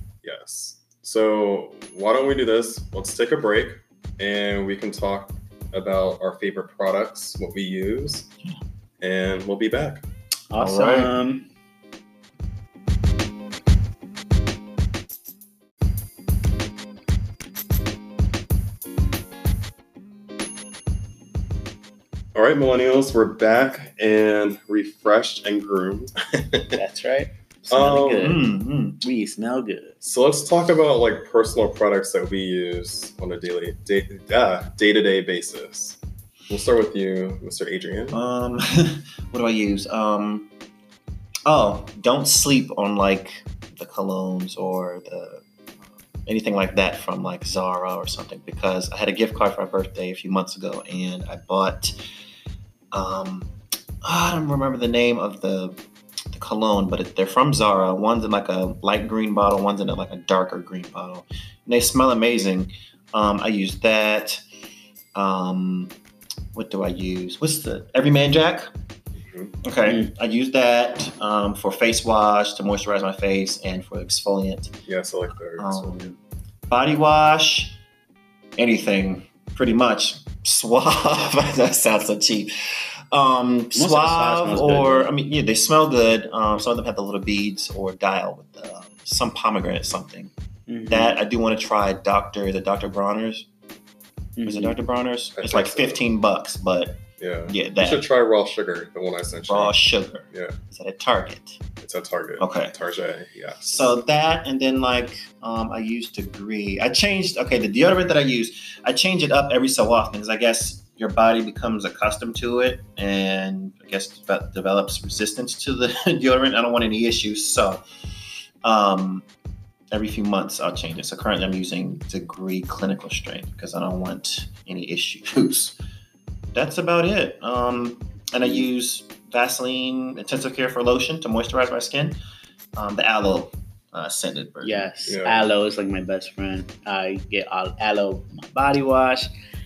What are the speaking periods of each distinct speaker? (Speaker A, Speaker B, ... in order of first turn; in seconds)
Speaker A: 0.2-8.3, 9.0-10.0, 22.4-26.8, 27.7-28.3, 30.0-36.0, 36.5-38.2, 69.2-69.5, 74.9-76.0, 95.4-96.0, 97.2-99.8, 100.3-100.6, 101.8-103.9, 135.1-135.4
Speaker B: 10.5-11.5, 26.7-28.4, 29.0-30.0, 69.9-70.1, 83.7-85.1, 90.7-91.2, 94.4-94.8, 134.6-139.3
Speaker C: 10.6-11.2, 28.1-29.0, 38.1-40.5, 41.5-45.4, 46.2-51.9, 52.9-53.5, 54.0-55.8, 56.3-64.4, 65.2-65.9, 66.5-68.7, 69.6-74.7, 75.6-76.2, 76.7-77.8, 78.6-90.3, 90.9-93.5, 94.5-98.1, 99.5-101.6, 102.4-102.7, 103.7-117.8, 118.6-119.3, 119.9-125.8, 126.5-132.2, 132.8-134.9